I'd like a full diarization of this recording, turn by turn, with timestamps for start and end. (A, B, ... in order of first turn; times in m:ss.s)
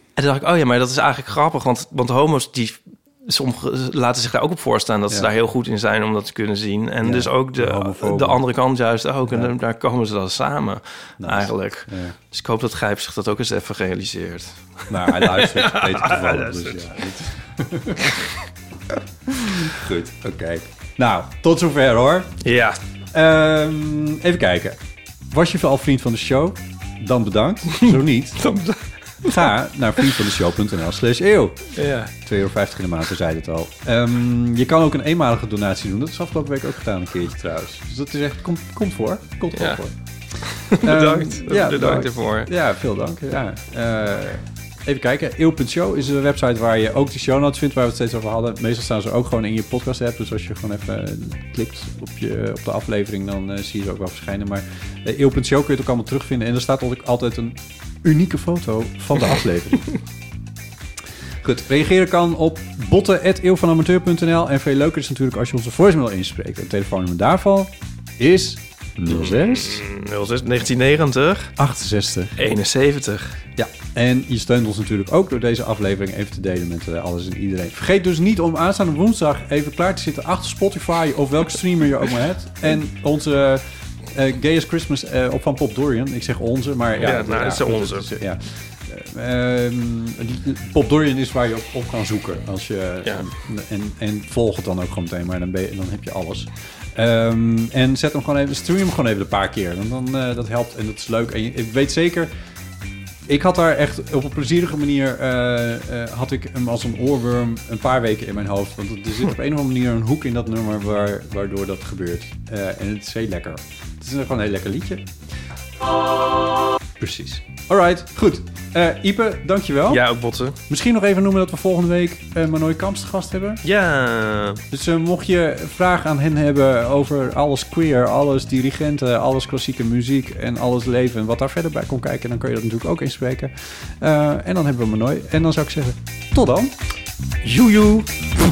0:00.2-0:17.0 A
0:07.0-0:08.4 B
0:09.3-0:09.5 B
0:11.2-0:12.2 B
0:14.9-0:18.2 B
0:19.3-0:22.3 B
0:22.4-0:22.8 A
0:23.1-0:24.8 B
0:25.3-0:28.4 B
0:28.4-0:29.5 A
0:29.2-0:39.9 B
0:31.7-0:32.1 A
0:39.5-0:39.8 A
0:40.3-0:42.5 A
0:40.7-1:00.0 B
1:01.4-1:09.8 B
1:09.1-1:11.5 A
1:11.6-1:12.4 B
1:12.4-1:13.4 A
1:13.6-1:42.3 B
1:27.0-1:28.1 A
1:43.3-1:55.1 B
1:57.0-2:00.0 B
1:59.9-2:00.6 A
2:00.7-2:03.6 B
2:03.6-2:04.6 A
2:04.7-2:16.8 B
2:17.4-2:18.1 A